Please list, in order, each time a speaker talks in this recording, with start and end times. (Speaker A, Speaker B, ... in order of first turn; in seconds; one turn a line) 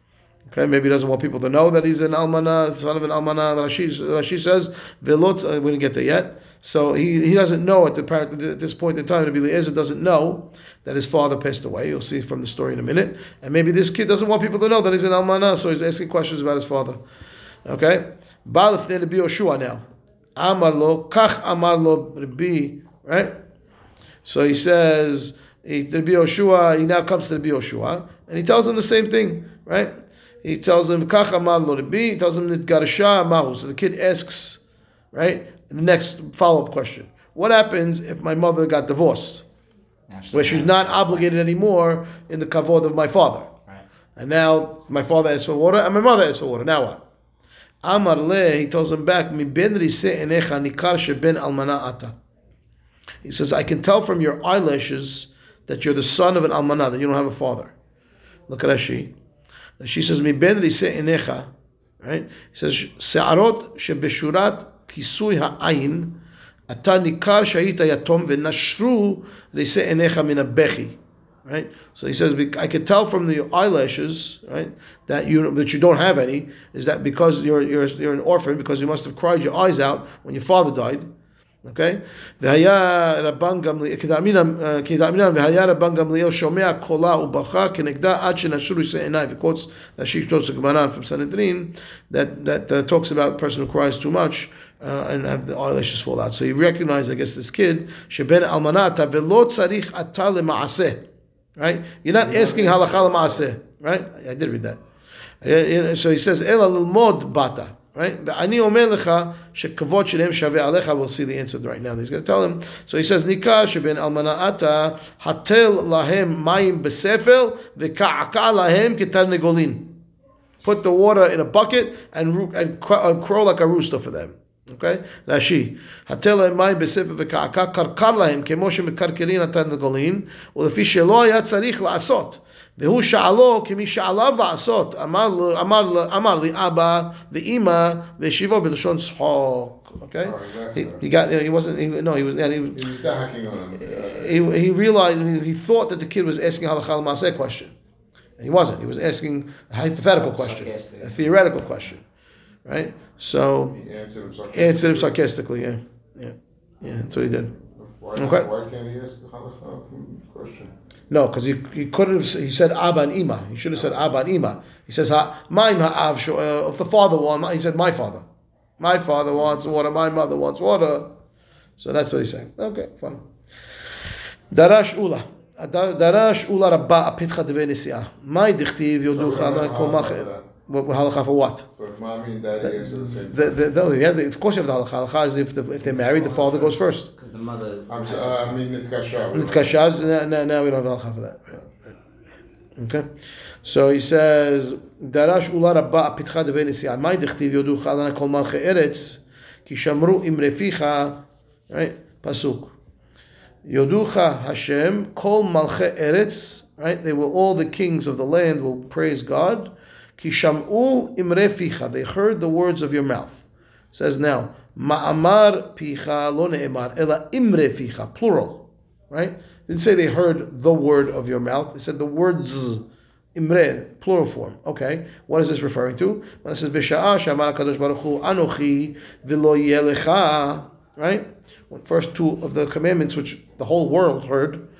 Speaker A: 0.5-17.0
Speaker A: 17.6-19.8
Speaker A: 20.4-23.3
Speaker A: 24.2-34.6
Speaker A: 35.1-39.4
Speaker B: 40.1-41.2
Speaker A: 40.3-43.5
Speaker A: 44.1-47.0
Speaker A: 47.8-52.1
Speaker A: 53.2-57.7
Speaker A: 58.5-59.1
Speaker A: 59.8-61.5
Speaker A: 62.0-66.1
Speaker A: 66.7-81.1
Speaker A: 81.6-104.8
Speaker C: 102.2-103.0
Speaker B: 102.5-103.3
Speaker A: 105.4-119.9
Speaker A: 120.6-142.8
Speaker C: 140.2-141.0
Speaker C: 142.7-144.5
Speaker A: 143.8-147.7
Speaker A: 148.4-152.0
Speaker B: 150.0-151.6
Speaker A: 152.7-153.8
Speaker C: 153.7-155.2
Speaker A: 154.5-157.5
Speaker C: 157.7-160.7
Speaker A: 158.2-158.5
Speaker A: 161.1-168.2
Speaker A: 168.8-171.1
Speaker A: 171.8-173.2
Speaker A: 174.5-181.7
Speaker C: 179.1-180.5
Speaker C: 181.8-183.7
Speaker A: 182.6-187.1
Speaker B: 185.8-188.6
Speaker C: 187.9-190.1
Speaker A: 189.3-191.6
Speaker A: 192.8-193.1
Speaker A: 193.6-202.8
Speaker A: 203.6-222.8
Speaker A: 223.3-234.6